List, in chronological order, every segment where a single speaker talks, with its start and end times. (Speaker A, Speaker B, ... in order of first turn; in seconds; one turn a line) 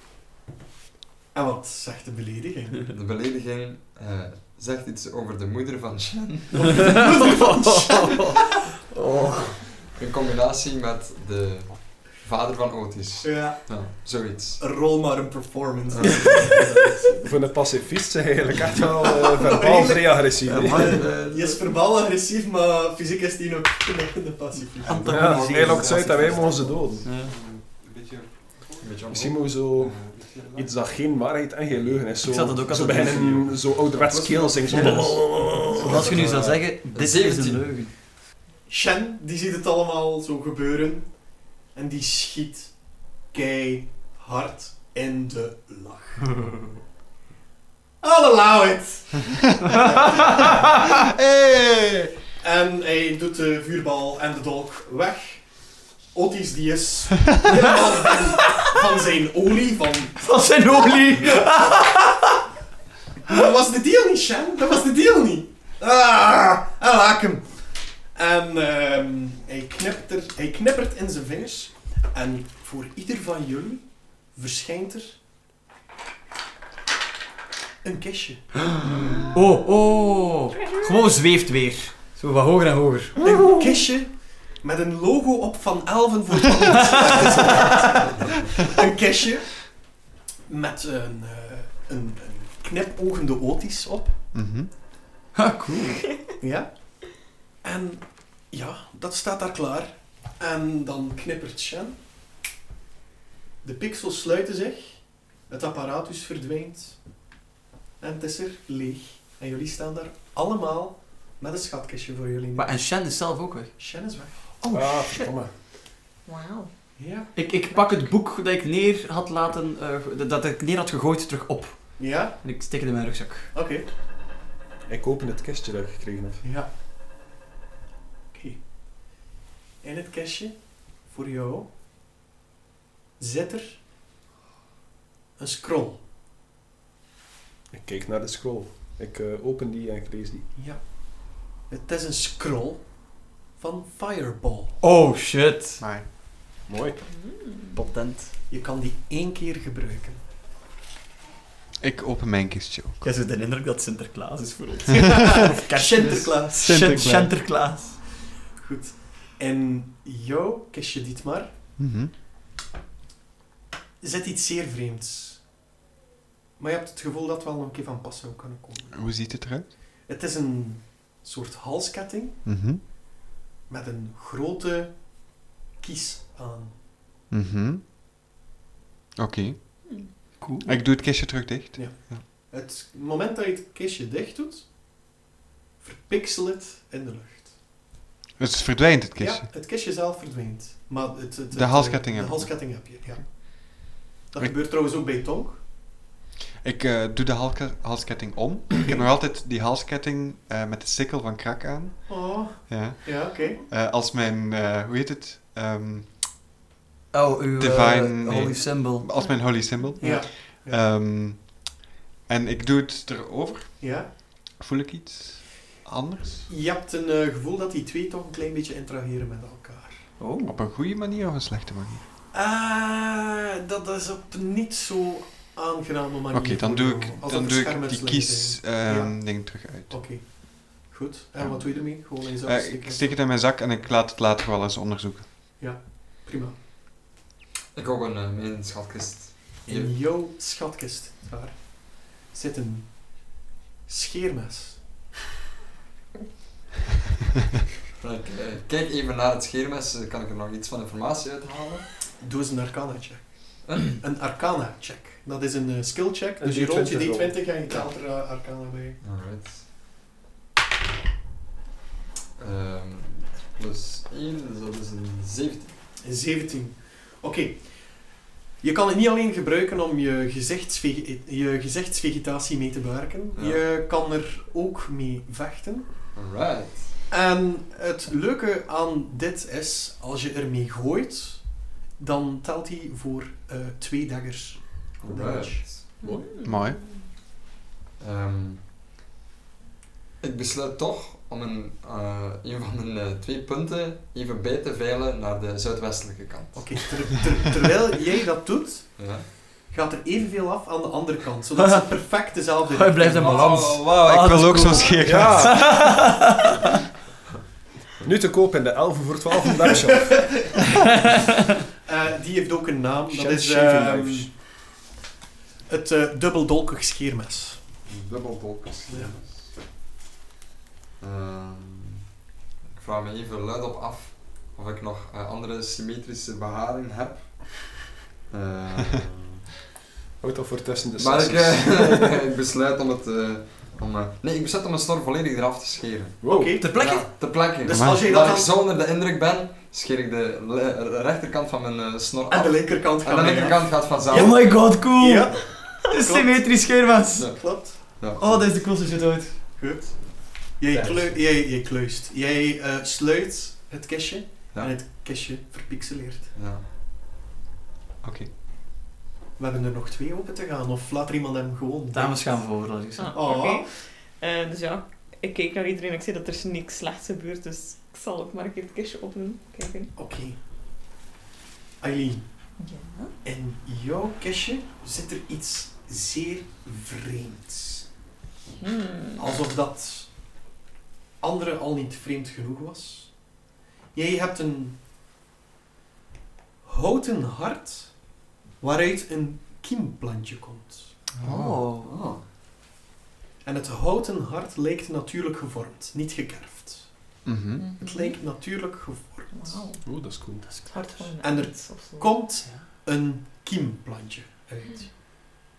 Speaker A: 1.3-2.8
Speaker B: 2.9-7.0
Speaker A: 6.5-8.4
Speaker C: 6.6-9.6
Speaker B: 9.8-14.7
Speaker A: 13.2-17.2
Speaker B: 15.9-16.7
Speaker D: 17.2-21.0
Speaker A: 18.8-25.1
Speaker C: 20.4-21.6
Speaker B: 20.5-21.1
Speaker C: 24.8-26.3
Speaker B: 24.9-26.9
Speaker D: 25.0-27.0
Speaker E: 25.4-29.2
Speaker C: 27.0-27.3
Speaker B: 28.8-29.9
Speaker D: 29.1-36.6
Speaker E: 29.8-30.7
Speaker C: 32.2-33.4
Speaker E: 34.1-34.4
Speaker C: 34.6-37.9
Speaker B: 36.9-37.7
Speaker A: 38.7-46.3
Speaker A: 48.0-50.8
Speaker E: 50.9-52.1
Speaker A: 52.4-60.2
Speaker C: 57.5-58.7
Speaker C: 60.2-62.4
Speaker A: 63.2-67.6
Speaker A: 68.1-75.2
Speaker A: 77.8-78.5
Speaker C: 79.2-83.4
Speaker F: 80.6-81.0
Speaker A: 83.2-89.9
Speaker A: 90.5-94.2
Speaker E: 94.3-94.7
Speaker C: 95.3-96.0
Speaker F: 96.1-96.3
Speaker A: 96.4-102.0
Speaker A: 103.6-107.2
Speaker A: 108.0-112.9
Speaker C: 112.5-113.7
Speaker A: 113.8-114.5
Speaker F: 114.7-115.3
Speaker D: 114.7-115.5
Speaker F: 116.2-117.0
Speaker A: 117.0-117.3
Speaker C: 117.3-123.5
Speaker F: 117.5-118.1
Speaker A: 122.0-122.3
Speaker A: 123.5-123.8
Speaker D: 124.9-126.4
Speaker A: 126.4-126.7
Speaker A: 128.3-128.6
Speaker A: 129.8-131.7
Speaker A: 133.2-133.8
Speaker A: 135.4-136.0
Speaker D: 137.7-140.5
Speaker A: 140.5-144.7
Speaker C: 144.8-145.8
Speaker E: 145.8-146.1
Speaker D: 146.7-147.0
Speaker F: 147.0-147.8
Speaker C: 147.7-148.3
Speaker A: 148.5-150.2
Speaker E: 151.8-153.0
Speaker C: 153.0-158.0
Speaker A: 154.9-156.9
Speaker E: 156.6-157.3
Speaker A: 158.6-161.5
Speaker E: 161.8-162.1
Speaker A: 164.0-165.4
Speaker A: 166.6-168.9
Speaker E: 168.9-169.7
Speaker A: 170.1-172.4
Speaker E: 172.4-172.8
Speaker A: 173.7-176.7
Speaker E: 177.3-177.8
Speaker E: 179.2-182.2
Speaker F: 179.8-180.2
Speaker C: 180.4-180.8
Speaker A: 181.7-184.7
Speaker A: 185.8-187.5
Speaker E: 188.4-189.4
Speaker A: 189.2-195.6
Speaker E: 191.5-193.3
Speaker E: 196.6-206.3
Speaker A: 202.1-203.6
Speaker C: 207.1-209.1
Speaker E: 207.6-216.5
Speaker F: 209.1-209.9
Speaker C: 210.0-210.3
Speaker A: 210.0-210.8
Speaker A: 213.8-214.1
Speaker A: 216.5-220.1
Speaker C: 220.2-220.6
Speaker E: 220.4-222.0
Speaker A: 222.3-233.2
Speaker E: 226.3-229.9
Speaker E: 232.0-235.3
Speaker A: 235.6-236.6
Speaker B: 237.7-239.9
Speaker A: 239.6-244.8
Speaker B: 247.9-251.9
Speaker A: 252.2-259.0
Speaker D: 256.4-257.4
Speaker B: 259.0-259.7
Speaker B: 262.4-265.7
Speaker A: 266.0-275.9
Speaker B: 273.3-273.6
Speaker B: 276.1-277.0
Speaker A: 277.1-285.6
Speaker B: 285.0-285.9
Speaker F: 286.0-287.0
Speaker E: 286.4-286.8
Speaker B: 288.0-288.7
Speaker B: 290.2-297.1
Speaker A: 296.5-303.6
Speaker B: 299.0-299.3
Speaker C: 302.7-306.5
Speaker D: 303.3-303.8
Speaker E: 303.4-306.0
Speaker D: 305.0-305.6
Speaker D: 308.0-310.6
Speaker A: 310.1-310.5
Speaker A: 311.8-314.3
Speaker D: 313.1-314.3
Speaker A: 315.7-317.6
Speaker B: 317.9-319.5
Speaker A: 318.9-319.1
Speaker B: 321.0-322.0
Speaker B: 322.7-329.5
Speaker D: 330.2-332.2
Speaker B: 331.0-344.7
Speaker D: 336.2-336.6
Speaker A: 336.2-336.6
Speaker C: 336.6-337.1
Speaker A: 337.6-338.5
Speaker E: 337.7-338.0
Speaker A: 342.3-343.7
Speaker C: 344.1-347.4
Speaker A: 345.0-346.8
Speaker B: 347.2-348.6
Speaker A: 347.3-347.8
Speaker C: 348.2-349.4
Speaker A: 349.6-356.3
Speaker C: 350.7-351.2
Speaker B: 356.3-356.6
Speaker E: 358.0-358.3
Speaker A: 359.4-362.4
Speaker C: 361.9-363.2
Speaker F: 363.0-369.9
Speaker A: 363.1-363.7
Speaker A: 369.9-370.4
Speaker A: 371.8-372.2
Speaker F: 372.6-373.1
Speaker A: 373.2-377.9
Speaker F: 378.6-379.2
Speaker A: 379.2-380.1
Speaker A: 381.2-383.2
Speaker A: 383.9-384.8
Speaker A: 386.6-390.9
Speaker E: 391.2-391.6
Speaker C: 391.2-392.0
Speaker B: 391.8-392.2
Speaker A: 393.4-396.9
Speaker E: 397.2-397.6
Speaker F: 397.6-398.2
Speaker A: 397.8-399.6
Speaker F: 399.3-399.8
Speaker D: 399.8-400.6
Speaker C: 400.4-401.1
Speaker F: 400.7-402.2
Speaker A: 401.2-404.9